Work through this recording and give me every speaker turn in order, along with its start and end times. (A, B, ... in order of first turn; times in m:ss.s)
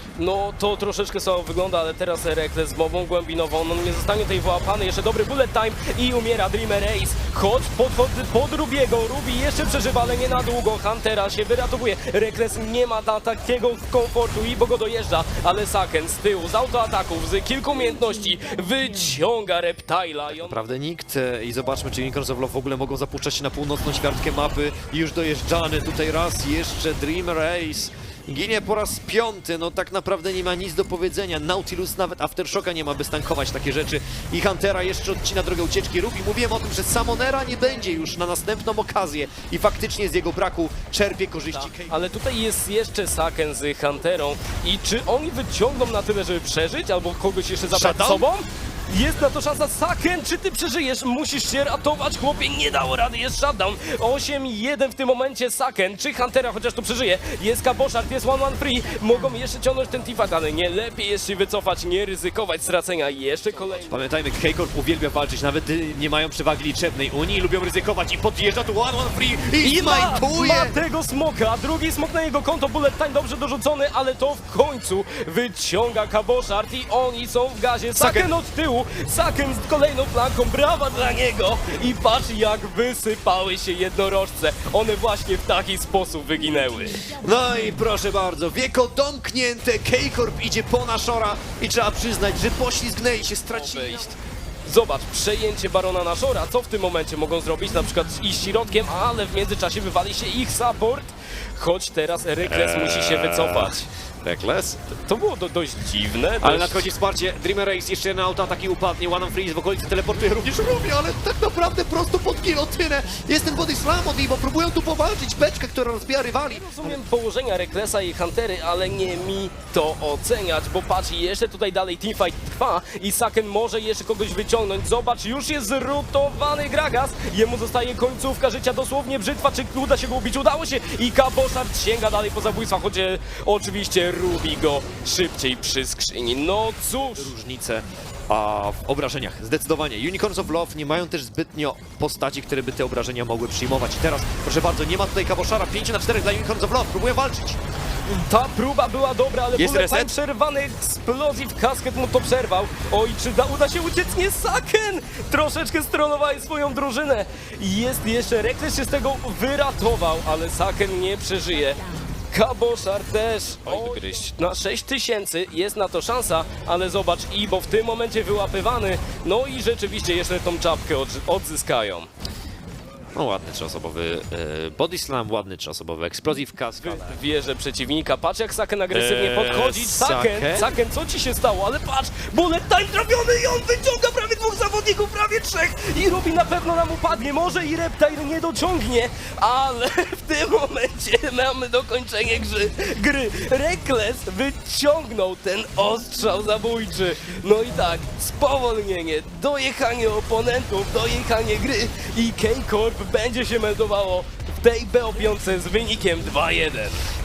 0:00.2-0:20.6 A
0:20.3-0:42.1 B
0:41.5-1:04.0 A
0:47.6-0:48.3 B
1:03.8-1:10.8 B
1:09.6-1:27.2 A
1:18.0-1:18.3 B
1:27.0-1:34.2 B
1:33.3-1:34.2 A
1:34.7-1:43.8 A
1:42.4-1:44.8 B
1:44.9-1:46.9 A
1:46.4-1:57.0 B
1:56.5-2:17.3 A
2:17.0-2:27.6 B
2:28.1-2:52.1 A
2:29.5-2:30.1 B
2:43.6-2:44.2 B
2:53.1-2:57.2 B
2:56.8-3:27.0 A
2:58.9-3:00.8 B